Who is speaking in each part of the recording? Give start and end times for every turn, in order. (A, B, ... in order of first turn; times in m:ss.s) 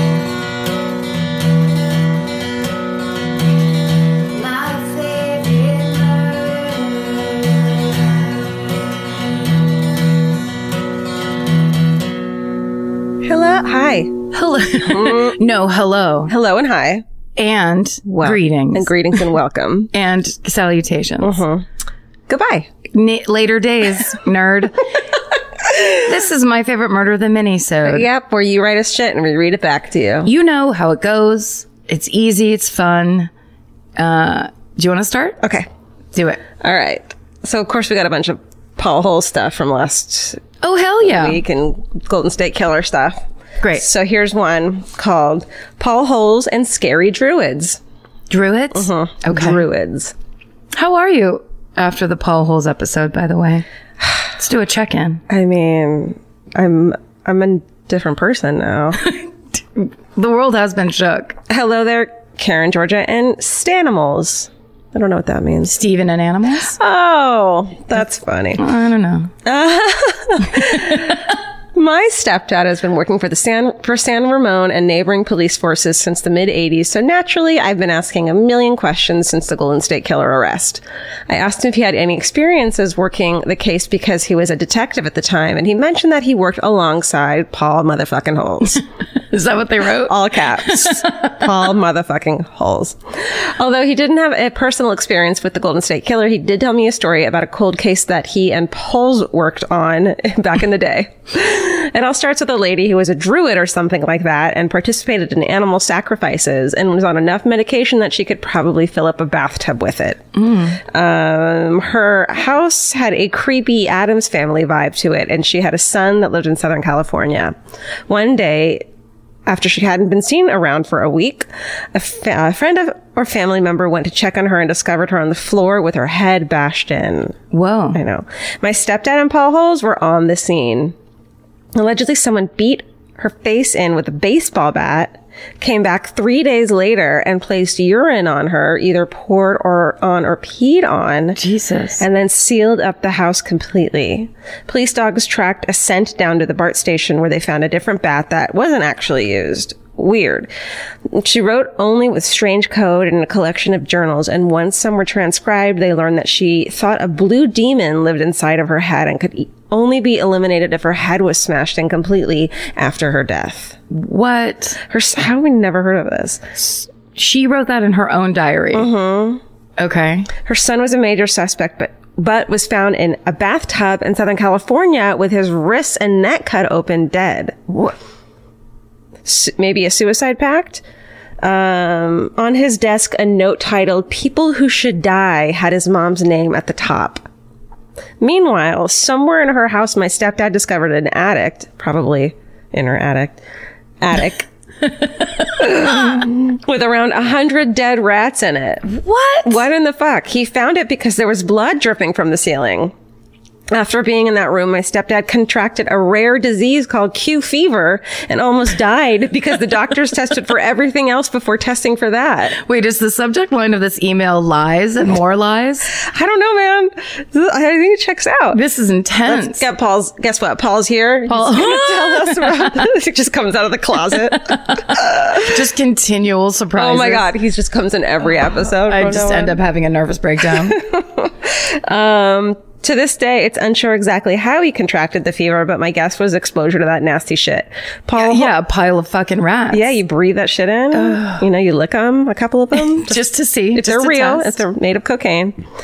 0:04.4-0:05.6 A
0:13.2-0:14.2 B
0:14.3-0:16.3 A
0:14.9-0:15.4 B
0:16.3-0:17.0 B
0:17.4-0:19.2 A
0:18.1-0:19.9 B
0:19.9-0:21.4 A
0:21.2-0:21.7 B
0:22.3-0:22.7 B
0:22.9-0:24.8 A
0:26.0-0:28.1 A
0:27.8-0:30.3 B
0:30.2-0:33.3 A
0:34.0-0:35.4 A
0:35.4-0:35.7 B
0:36.1-0:36.4 A
0:36.6-0:40.4 B
0:40.6-0:41.4 A
0:41.0-0:43.2 B
0:43.7-0:47.8 B
0:48.3-0:49.6 A
0:48.7-0:50.1 B
0:50.8-0:53.7 A
0:54.4-0:55.2 A
0:55.3-0:59.0 B
0:59.0-1:01.4 A
1:01.5-1:05.8 B
1:05.7-1:06.8 A
1:06.7-1:08.7 B
1:08.6-1:09.3 A
1:09.4-1:28.8 B
1:10.5-1:11.0 A
1:29.3-1:31.4 A
1:30.1-1:50.3 B
1:50.4-1:50.8 A
1:50.8-1:57.5 B
1:58.1-1:58.8 B
1:59.5-2:07.4 B
2:07.5-2:08.0 A
2:07.9-2:10.9 B
2:11.8-2:21.4 B
2:21.4-2:22.0 A
2:22.0-2:30.5 B
2:31.1-2:43.8 B
2:43.9-2:44.8 A
2:44.9-2:46.4 B
2:46.6-2:48.9 A
2:48.7-2:49.4 B
2:49.8-2:50.3 A
2:50.4-2:57.7 B
2:59.3-3:00.8 B
3:01.4-3:07.3 B
3:08.2-3:13.4 B
3:14.0-3:14.5 B
3:15.6-3:18.9 B
3:18.8-3:19.6 A
3:19.4-3:22.9 B
3:23.7-3:32.6 B
3:32.6-3:35.9 A
3:35.9-3:38.6 B
3:38.5-3:39.7 A
3:39.3-3:45.6 B
3:41.3-3:42.8 A
3:44.2-3:47.3 A
3:46.8-3:49.6 B
3:48.8-3:50.8 A
3:50.6-3:58.5 B
3:58.2-4:00.0 A
3:59.7-4:03.2 B
4:00.9-4:01.4 A
4:03.0-4:04.6 A
4:03.8-4:05.6 B